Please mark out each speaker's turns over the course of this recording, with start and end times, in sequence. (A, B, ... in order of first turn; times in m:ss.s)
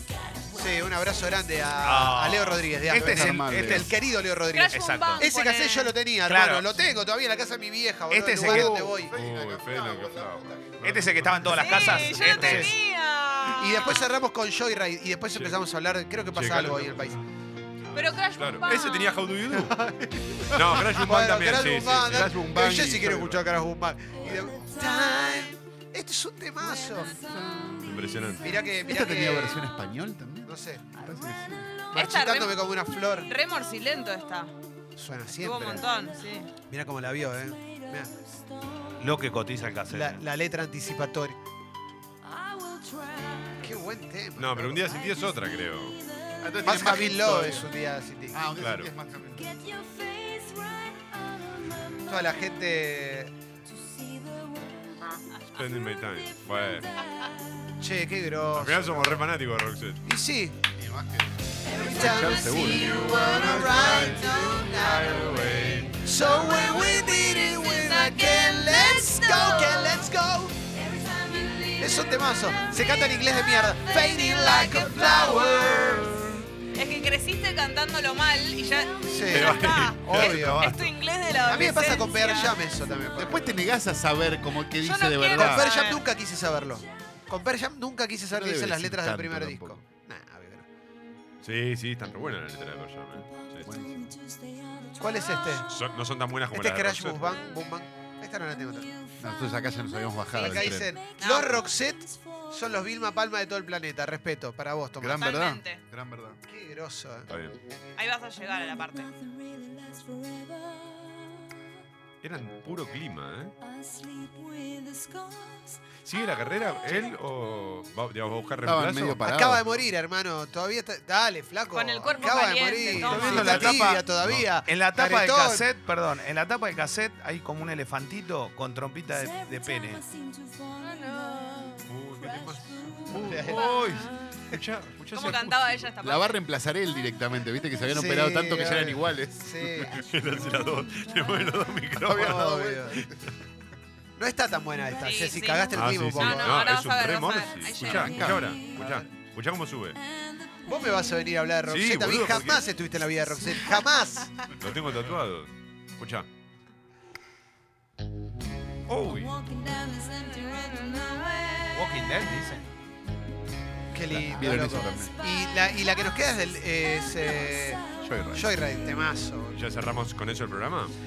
0:00.5-0:10.0 A
0:01.8-0:04.0 B
0:02.9-0:03.9 C
0:04.5-0:06.0 D
0:04.7-0:05.2 B
0:06.3-0:06.8 B
0:08.1-0:08.8 B
0:08.4-0:11.0 C
0:09.1-0:11.3 E
0:10.8-0:12.7 B
0:11.5-0:13.8 D
0:11.6-0:12.8 A
0:13.6-0:17.2 A
0:16.3-0:17.2 E
0:17.9-0:19.2 D
0:18.4-0:19.8 E
0:19.8-0:20.1 A
0:20.5-0:22.5 E
0:20.9-0:27.2 A
0:22.1-0:23.4 C
0:27.2-0:27.9 C
0:27.8-0:28.5 E
0:28.4-0:29.6 A
0:28.8-0:31.7 C
0:30.5-0:30.9 A
0:31.9-0:33.3 A
0:32.0-0:32.6 D
0:33.3-0:34.5 D
0:35.0-0:35.9 A
0:35.3-0:36.5 D
0:36.7-0:38.2 A
0:39.0-0:40.2 B
0:39.9-0:41.4 A
0:43.6-0:44.8 A
0:44.4-0:46.0 E
0:46.4-0:47.7 C
0:46.6-0:48.4 A
0:48.3-0:49.7 C
0:48.6-0:48.9 E
0:52.1-0:53.3 A
0:55.6-0:56.9 E
0:57.8-0:59.2 A
0:58.5-1:00.0 E
1:00.1-1:00.6 A
1:00.7-1:04.5 C
1:01.7-1:05.5 A
1:02.7-1:06.0 E
1:06.0-1:10.6 A
1:06.5-1:09.6 D
1:10.9-1:11.8 D
1:11.8-1:16.2 A
1:14.0-1:15.6 D
1:16.7-1:22.6 D
1:19.1-1:20.7 A
1:19.3-1:20.9 E
1:21.4-1:23.6 A
1:23.2-1:25.7 C
1:24.8-1:26.0 D
1:25.4-1:30.6 A
1:28.3-1:29.8 C
1:31.4-1:33.7 E
1:33.6-1:34.2 C
1:35.0-1:35.7 A
1:35.7-1:37.4 E
1:36.5-1:38.9 A
1:39.2-1:40.9 C
1:40.3-1:41.6 D
1:40.4-1:45.4 A
1:45.0-1:46.4 C
1:45.2-1:45.8 D
1:46.5-1:47.3 A
1:47.3-1:47.6 E
1:48.0-1:49.1 D
1:52.2-1:53.6 E
1:56.0-1:59.2 E
1:58.6-1:59.6 C
1:59.2-2:05.7 A
2:01.7-2:03.8 D
2:03.0-2:04.0 B
2:03.2-2:03.6 E
2:04.6-2:10.0 B
2:10.8-2:11.9 D
2:11.9-2:15.9 E
2:13.2-2:13.8 A
2:13.5-2:14.4 D
2:15.1-2:16.4 D
2:16.0-2:19.9 C
2:17.9-2:20.0 A
2:20.0-2:23.3 E
2:22.0-2:23.1 C
2:22.1-2:23.0 A
2:24.2-2:26.6 A
2:25.0-2:28.1 D
2:25.7-2:30.0 E
2:27.8-2:28.5 C
2:28.8-2:29.1 A
2:30.7-2:34.4 A
2:31.7-2:32.7 E
2:34.6-2:36.3 E
2:38.9-2:39.3 B
2:39.0-2:39.3 E
2:40.1-2:41.7 D
2:41.7-2:42.7 B
2:43.9-2:49.6 A
2:44.1-2:45.2 C
2:48.0-2:48.5 C
2:49.5-2:50.9 E